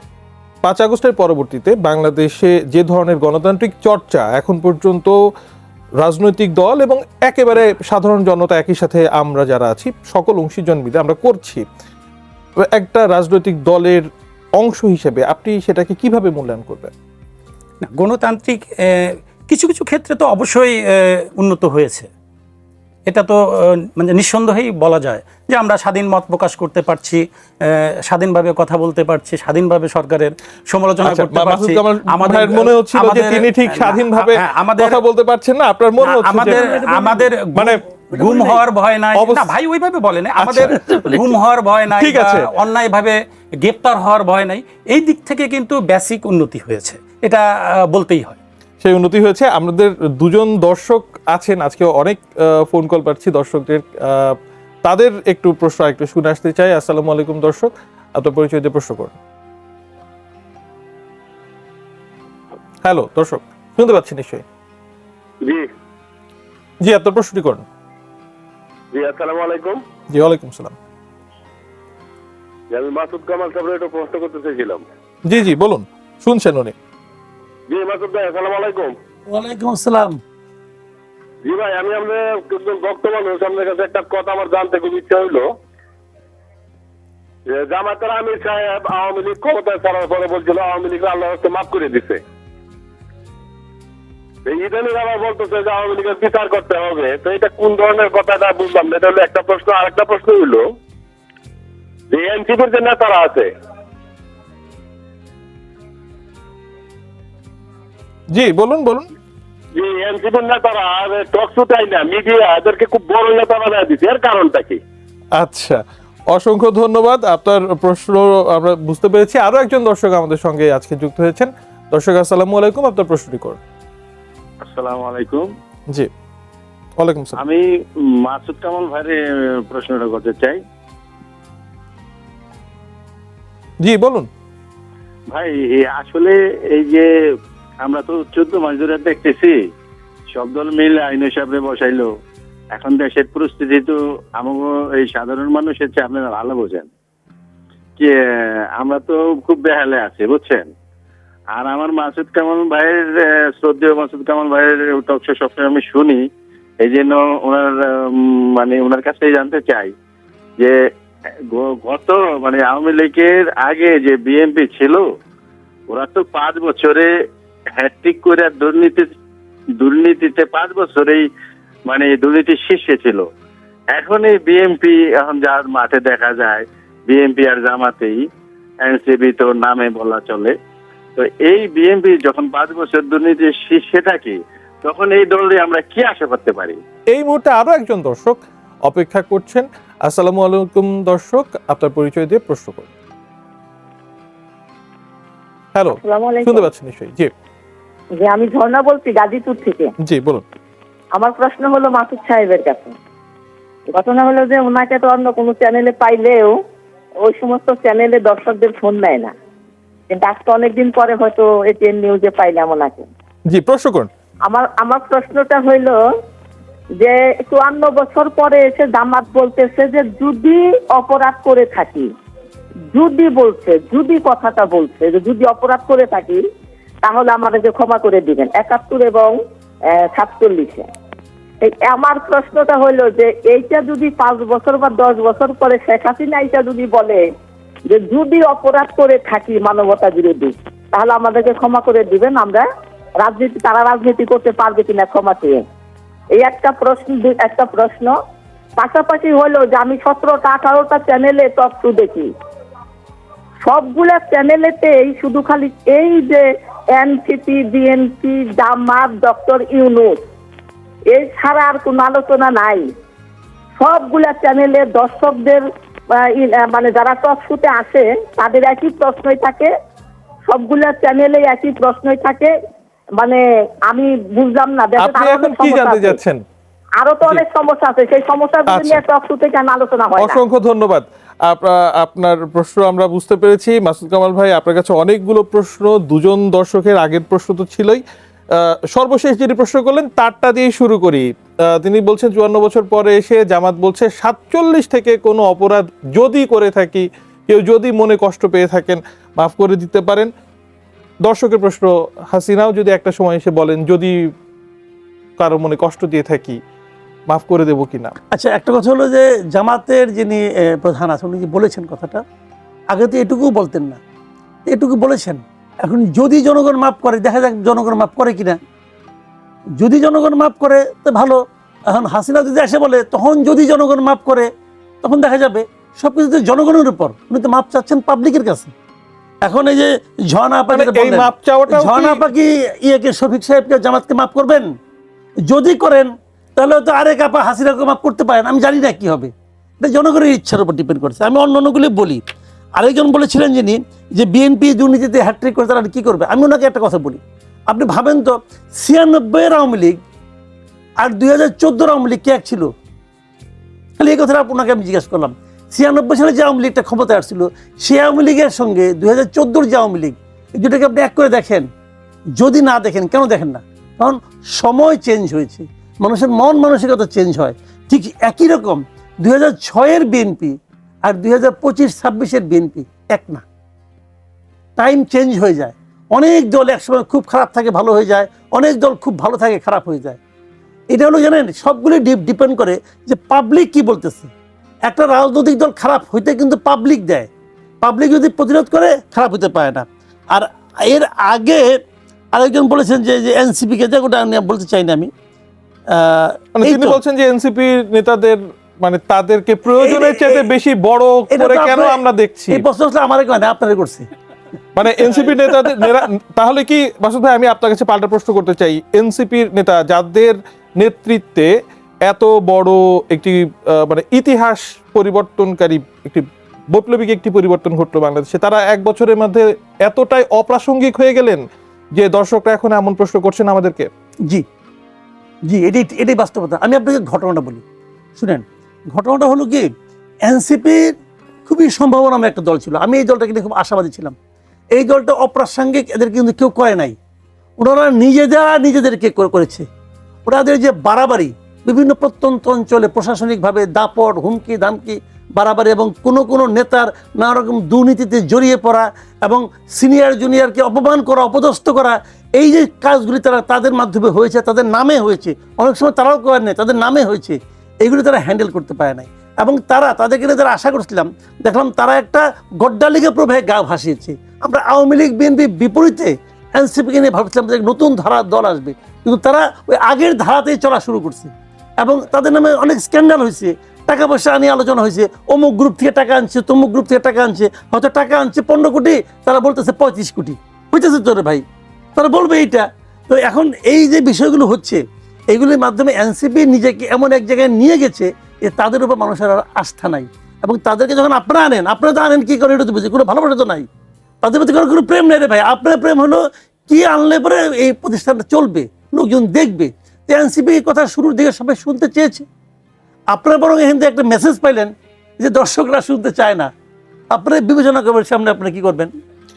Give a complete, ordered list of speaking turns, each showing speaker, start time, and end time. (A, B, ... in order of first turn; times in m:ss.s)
0:00.6-0:05.2 A
0:06.0-0:11.6 A
0:12.6-0:16.9 A
0:17.8-0:22.1 B
0:23.1-0:35.0 B
0:31.0-0:36.6 A
0:36.0-0:48.4 B
0:36.4-0:37.3 C
0:37.5-0:37.8 A
0:38.1-0:38.6 C
0:39.2-0:39.5 A
0:40.4-0:41.1 A
0:40.7-0:41.2 C
0:42.0-0:42.5 A
0:48.8-0:59.2 A
1:02.8-1:04.4 A
1:05.4-1:05.7 D
1:06.8-1:07.6 A
1:08.9-1:09.8 D
1:10.1-1:10.8 A
1:12.7-1:14.8 D
1:15.2-1:16.7 A
1:17.7-1:18.9 D
1:19.3-1:20.2 C
1:21.4-1:25.4 D
1:27.5-1:32.2 D
1:34.4-1:40.6 D
1:42.1-1:43.5 D
1:48.3-1:49.1 A
1:49.7-1:54.8 D
1:55.4-2:03.6 A
2:04.6-2:05.4 E
2:07.0-2:07.4 A
2:07.4-2:07.6 E
2:08.2-2:10.6 E
2:13.8-2:14.3 A
2:15.3-2:17.1 E
2:17.8-2:19.6 E
2:20.3-2:22.1 E
2:22.7-2:26.9 E
2:28.0-2:30.7 E
2:31.5-2:36.2 E
2:36.8-2:39.9 E
2:41.5-2:45.0 E
2:45.9-2:47.1 E
2:47.7-2:49.1 E
2:49.8-2:51.2 E
2:51.9-2:53.3 E
2:53.9-2:58.2 E
2:58.8-3:00.5 E
3:01.2-3:06.8 E
3:07.1-3:12.9 A
3:15.7-3:17.3 A
3:15.9-3:16.7 F
3:18.2-3:19.9 F
3:20.0-3:20.4 A
3:21.1-3:22.9 F
3:23.9-3:26.6 F
3:27.2-3:29.3 F
3:30.1-3:33.1 F
3:33.5-3:34.1 A
3:34.4-3:36.0 F
3:37.0-3:42.1 F
3:42.9-3:46.4 F
3:47.0-3:49.4 F
3:49.9-3:50.9 F
3:51.6-3:57.3 F
3:57.9-4:02.6 F
4:03.2-4:05.6 F
4:06.3-4:08.1 F
4:08.8-4:12.3 F
4:13.6-4:20.2 F
4:21.1-4:22.9 F
4:23.8-4:29.7 F
4:30.5-4:32.5 F
4:33.2-4:36.2 F
4:35.0-4:36.4 A
4:37.0-4:40.4 F
4:38.7-4:39.0 A
4:40.1-5:00.3 A
5:01.2-5:04.3 A
5:05.4-5:06.6 A
5:07.3-5:08.1 A
5:08.3-5:12.2 C
5:12.9-5:14.0 C
5:14.7-5:18.6 C
5:19.8-5:24.5 C
5:25.0-5:28.7 C
5:29.4-5:34.7 C
5:30.7-5:32.2 A
5:35.4-5:42.2 C
5:42.8-5:50.0 C
5:51.0-5:52.7 C
5:54.0-6:01.6 C
6:02.4-6:13.4 C
6:14.8-6:20.2 C
6:20.9-6:24.3 C
6:24.9-6:27.3 C
6:27.8-6:31.8 C
6:32.3-6:35.1 C
6:35.9-6:37.0 C
6:36.6-6:42.6 A
6:39.8-6:40.4 C
6:41.3-6:44.1 C
6:44.7-6:51.5 A
6:52.0-7:01.4 A
7:01.9-7:03.9 A
7:05.5-7:07.6 C
7:08.2-7:09.7 C
7:10.2-7:10.9 C
7:11.4-7:14.1 C
7:14.7-7:17.0 C
7:17.6-7:19.6 C
7:20.2-8:01.4 C
8:02.0-8:13.7 C
8:14.2-8:22.2 C
8:23.1-8:26.5 C
8:27.1-8:28.9 C